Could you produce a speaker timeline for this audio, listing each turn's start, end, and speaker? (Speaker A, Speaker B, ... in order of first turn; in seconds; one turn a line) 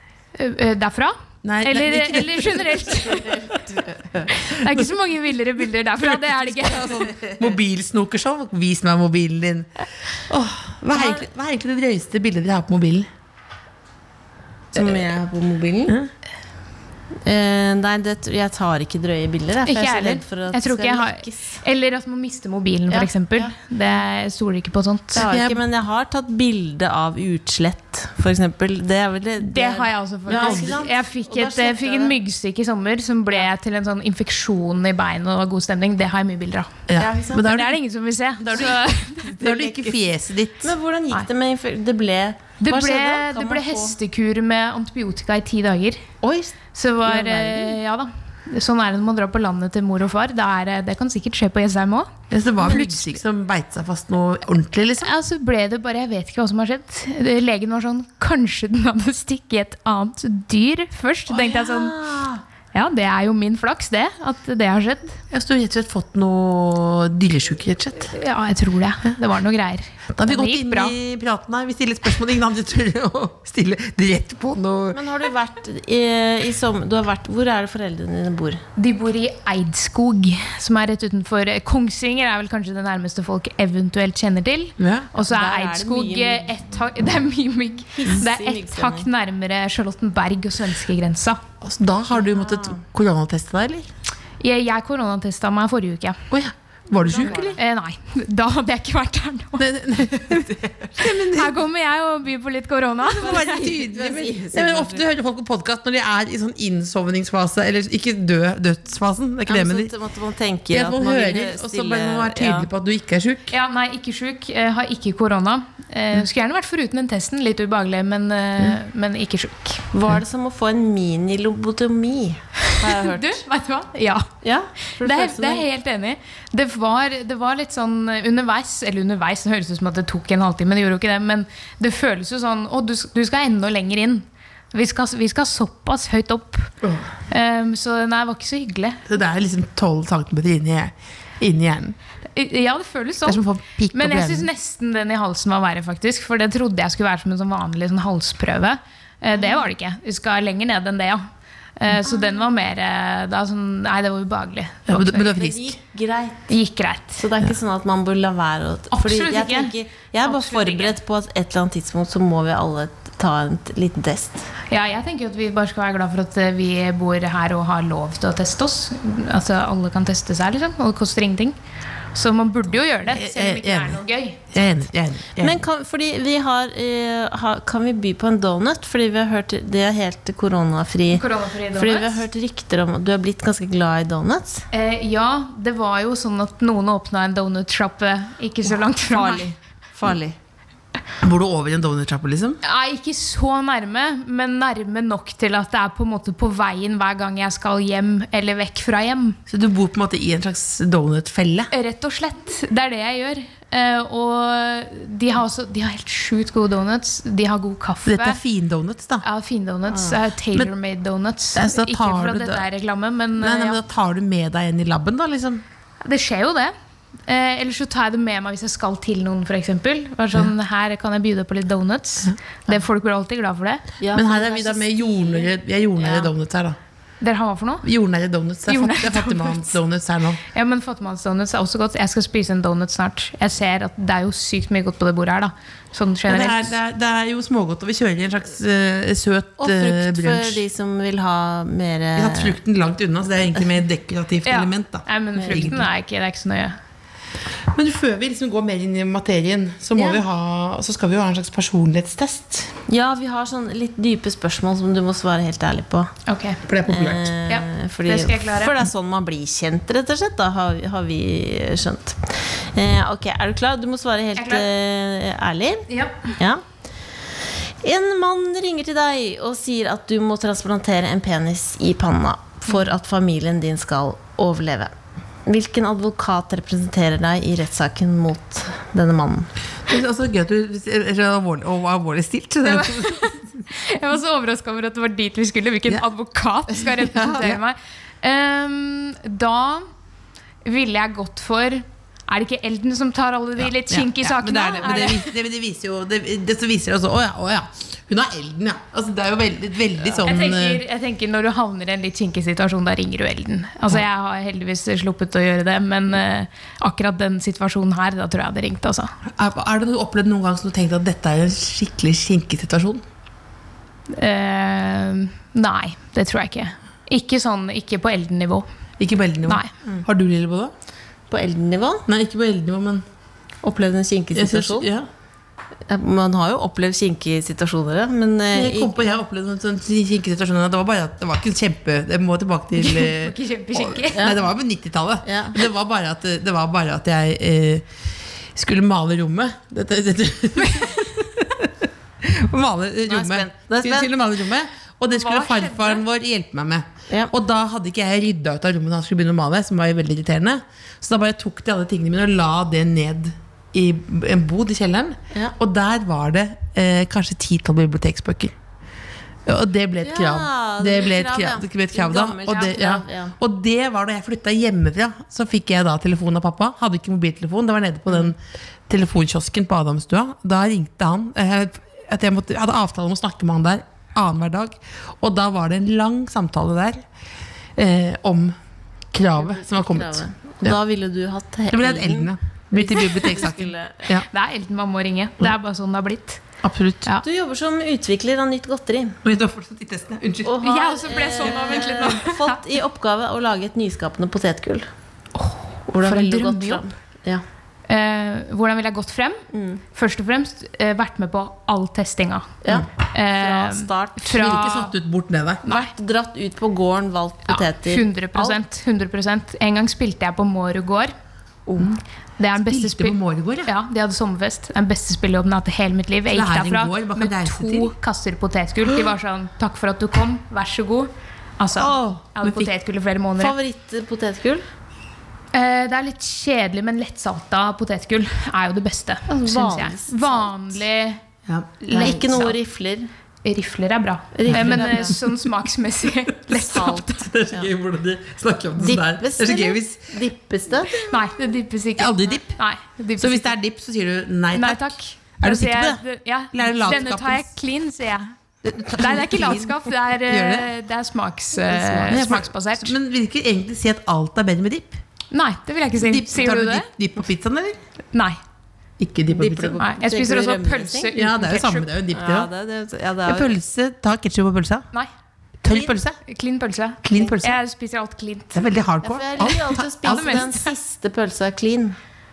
Speaker A: 0.3-3.6
Speaker B: 1.4-4.9
Speaker A: 4.3-7.1
Speaker B: 6.0-13.1
Speaker C: 10.9-11.2
Speaker C: 14.7-16.0
Speaker C: 17.2-21.6
Speaker A: 19.6-25.3
Speaker C: 22.9-23.5
Speaker C: 25.1-32.1
Speaker B: 25.2-25.6
Speaker A: 29.4-36.8
Speaker B: 30.3-30.8
Speaker B: 36.9-37.8
Speaker C: 37.0-37.4
Speaker A: 37.3-39.8
Speaker B: 38.4-40.7
Speaker C: 40.6-44.0
Speaker A: 42.6-46.0
Speaker C: 46.2-47.7
Speaker A: 46.7-53.1
Speaker B: 52.3-55.1
Speaker A: 55.0-62.0
Speaker B: 61.3-62.4
Speaker A: 62.7-65.2
Speaker B: 65.3-68.1
Speaker A: 68.0-70.9
Speaker B: 70.1-75.0
Speaker C: 74.9-78.6
Speaker A: 78.8-91.4
Speaker B: 84.8-85.1
Speaker C: 85.2-86.5
Speaker C: 87.9-89.1
Speaker B: 91.6-93.9
Speaker C: 92.2-92.8
Speaker A: 94.4-96.2
Speaker B: 96.3-97.6
Speaker C: 97.0-97.6
Speaker A: 97.5-99.7
Speaker B: 99.6-101.6
Speaker A: 101.0-103.4
Speaker B: 103.0-109.9
Speaker C: 103.1-105.0
Speaker C: 109.5-112.7
Speaker B: 110.7-113.5
Speaker A: 113.5-119.8
Speaker C: 119.9-123.4
Speaker A: 122.8-124.3
Speaker C: 124.4-125.6
Speaker A: 125.0-136.7
Speaker B: 136.8-137.1
Speaker A: 137.3-139.0
Speaker B: 139.1-142.0
Speaker A: 142.3-151.2
Speaker B: 143.2-144.5
Speaker A: 151.8-155.3
Speaker C: 152.0-152.3
Speaker B: 154.9-155.8
Speaker C: 155.2-156.5
Speaker A: 156.5-157.2
Speaker C: 157.2-164.5
Speaker A: 158.9-160.9
Speaker A: 164.7-171.6
Speaker A: 172.1-174.4
Speaker B: 173.0-174.0
Speaker B: 174.5-175.6
Speaker C: 175.4-184.7
Speaker A: 181.1-182.2
Speaker A: 184.7-189.5
Speaker C: 189.0-190.3
Speaker B: 191.2-192.6
Speaker A: 192.6-199.4
Speaker B: 199.5-201.7
Speaker A: 201.7-208.4
Speaker B: 208.0-209.2
Speaker A: 209.2-213.8
Speaker B: 211.5-212.6
Speaker B: 213.4-215.6
Speaker A: 216.0-216.7
Speaker A: 217.3-223.9
Speaker C: 224.0-226.3
Speaker B: 224.1-226.8
Speaker A: 227.2-227.9
Speaker B: 227.8-230.4
Speaker A: 228.7-229.7
Speaker A: 230.5-236.7
Speaker B: 236.3-240.6
Speaker C: 239.6-242.6
Speaker B: 242.1-245.9
Speaker A: 244.4-246.8
Speaker B: 247.7-252.8
Speaker C: 252.9-256.1
Speaker A: 256.3-256.6
Speaker B: 256.6-257.3
Speaker C: 256.9-266.6
Speaker A: 257.5-258.8
Speaker A: 264.4-264.7
Speaker A: 265.9-266.4
Speaker C: 267.2-274.9
Speaker C: 275.4-279.5
Speaker B: 279.9-283.6
Speaker A: 282.6-289.9
Speaker B: 287.2-287.6
Speaker A: 290.6-295.3
Speaker B: 293.6-300.8
Speaker A: 300.1-309.1
Speaker B: 309.2-313.0
Speaker A: 314.1-318.6
Speaker B: 319.0-320.7
Speaker A: 319.4-319.7
Speaker C: 321.3-322.0
Speaker B: 322.1-323.0
Speaker C: 323.6-324.9
Speaker B: 324.3-325.1
Speaker C: 325.9-329.0
Speaker B: 328.5-337.9
Speaker A: 332.8-334.4
Speaker C: 335.2-335.6
Speaker B: 338.5-358.5
Speaker A: 340.7-340.9
Speaker C: 343.0-344.1
Speaker A: 345.1-346.0
Speaker B: 359.4-377.0
Speaker C: 360.0-363.4
Speaker B: 377.8-378.6
Speaker B: 379.1-380.8
Speaker C: 379.4-384.1
Speaker B: 381.7-384.3
Speaker A: 384.3-386.4
Speaker B: 386.6-387.1
Speaker C: 387.2-389.2
Speaker B: 389.2-390.6
Speaker C: 390.4-394.9
Speaker A: 390.6-392.6
Speaker A: 395.3-396.8
Speaker C: 395.9-397.4
Speaker A: 397.9-404.9
Speaker C: 399.5-399.8
Speaker C: 402.6-404.4
Speaker B: 404.3-405.6
Speaker A: 405.6-405.9
Speaker C: 405.7-408.6
Speaker A: 407.5-411.1
Speaker A: 412.4-423.6
Speaker B: 412.6-413.7
Speaker B: 416.3-417.9
Speaker C: 421.8-422.3
Speaker B: 422.4-422.7
Speaker C: 423.4-424.6
Speaker A: 425.5-431.2
Speaker C: 429.3-430.4
Speaker B: 431.5-432.5
Speaker A: 431.9-432.5
Speaker C: 431.9-433.1
Speaker A: 433.4-437.3
Speaker C: 434.3-435.1
Speaker B: 434.4-435.3
Speaker B: 436.5-440.1
Speaker C: 436.5-437.7
Speaker C: 438.8-441.0
Speaker A: 441.1-443.5
Speaker B: 442.0-442.6
Speaker B: 443.2-446.0
Speaker A: 444.5-448.3
Speaker B: 446.5-447.5
Speaker B: 448.6-450.7
Speaker A: 448.9-452.9
Speaker C: 451.7-452.1
Speaker B: 452.0-455.0
Speaker A: 455.3-456.9
Speaker B: 456.0-457.8
Speaker A: 458.1-458.4
Speaker B: 459.0-459.8
Speaker C: 459.3-461.1
Speaker A: 459.8-461.9
Speaker B: 461.1-462.5
Speaker C: 462.1-463.5
Speaker B: 463.2-464.9
Speaker B: 465.6-466.2
Speaker A: 466.2-468.7
Speaker B: 467.0-467.6
Speaker B: 468.5-470.4
Speaker C: 469.0-472.0
Speaker A: 469.4-470.7